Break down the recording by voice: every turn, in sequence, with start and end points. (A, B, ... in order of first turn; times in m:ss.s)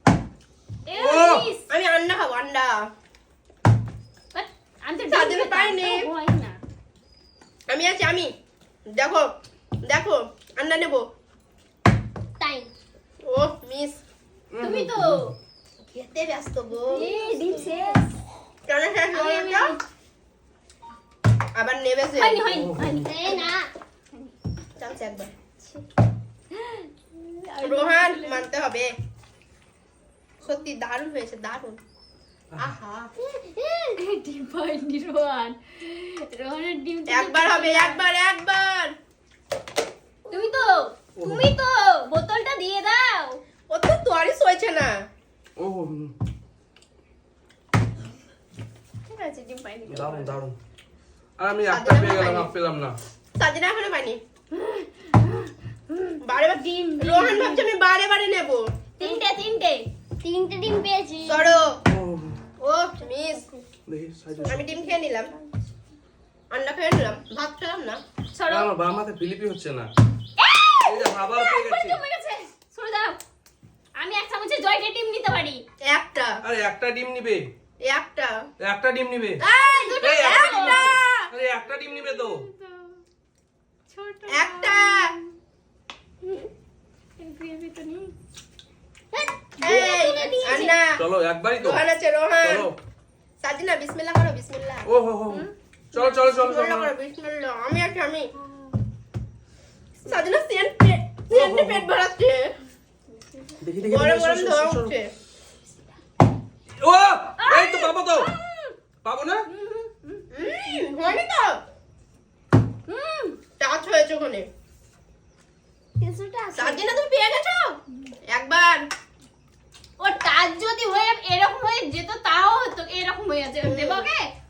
0:00.8-0:01.6 A
0:01.0-0:01.5 B
0:01.7-0:02.9 C
0:04.3-0:06.6 A
0:05.1-0:06.0 C
0:07.7-0:08.3 C
0:08.9-0:09.3 C
0:09.8-0:11.1 C
0:12.4-0:12.7 D
0:13.2-0:14.0 C
0:14.5-0:15.2 B
0:14.6-0:15.3 A
0:15.9-0:17.0 C
0:16.8-0:18.0 D
0:16.9-0:18.1 A
0:18.7-0:19.8 C
0:19.1-0:19.8 A
0:21.5-0:22.5 C
0:22.2-0:23.5 A
0:22.5-0:23.1 B
0:23.0-0:23.7 D
0:24.8-0:25.3 C
0:26.5-0:28.4 A
0:27.6-0:28.9 C
0:30.4-0:31.8 C
0:32.6-0:33.1 C
0:33.2-0:34.0 D
0:34.0-0:38.0 A
0:37.1-0:38.9 C
0:40.3-0:43.4 A
0:41.2-0:41.5 B
0:43.7-0:44.9 C
0:45.6-0:46.1 B
0:49.1-0:50.4 A
0:49.9-0:50.6 B
0:51.4-0:53.0 B
0:51.7-0:52.5 C
0:53.4-0:54.2 C
0:54.5-0:57.7 A
0:56.2-0:58.6 C
0:59.0-0:59.9 A
1:00.2-1:01.6 D
1:01.2-1:01.8 C
1:01.9-1:02.4 B
1:02.6-1:03.4 C
1:03.9-1:04.6 B
1:04.4-1:05.3 C
1:06.5-1:08.0 C
1:08.3-1:08.7 A
1:08.5-1:09.9 B
1:10.4-1:13.2 A
1:10.9-1:12.0 B
1:14.0-1:15.6 A
1:15.8-1:16.4 C
1:16.4-1:17.5 B
1:17.8-1:18.3 C
1:18.6-1:19.4 B
1:19.4-1:21.3 C
1:19.6-1:21.0 A
1:20.0-1:22.4 B
1:22.2-1:22.8 A
1:23.9-1:25.1 A
1:24.3-1:25.1 C
1:27.2-1:28.1 A
1:29.1-1:30.8 D
1:29.6-1:31.0 C
1:29.6-1:30.7 A
1:30.9-1:31.8 B
1:31.6-1:32.7 C
1:32.4-1:32.7 B
1:33.4-1:34.9 C
1:34.9-1:36.9 B
1:35.3-1:36.2 A
1:36.2-1:38.3 C
1:40.0-1:42.5 C
1:41.3-1:41.9 B
1:43.6-1:44.9 B
1:43.8-1:45.1 C
1:46.8-1:48.3 B
1:47.4-1:48.7 A
1:49.0-1:49.4 B
1:49.5-1:50.8 A
1:50.3-1:51.6 C
1:52.9-1:53.4 A
1:53.6-1:54.5 C
1:56.0-1:57.0 D
1:56.5-1:57.8 C
1:58.3-1:58.8 C
2:00.0-2:04.3 A
2:03.6-2:04.0 C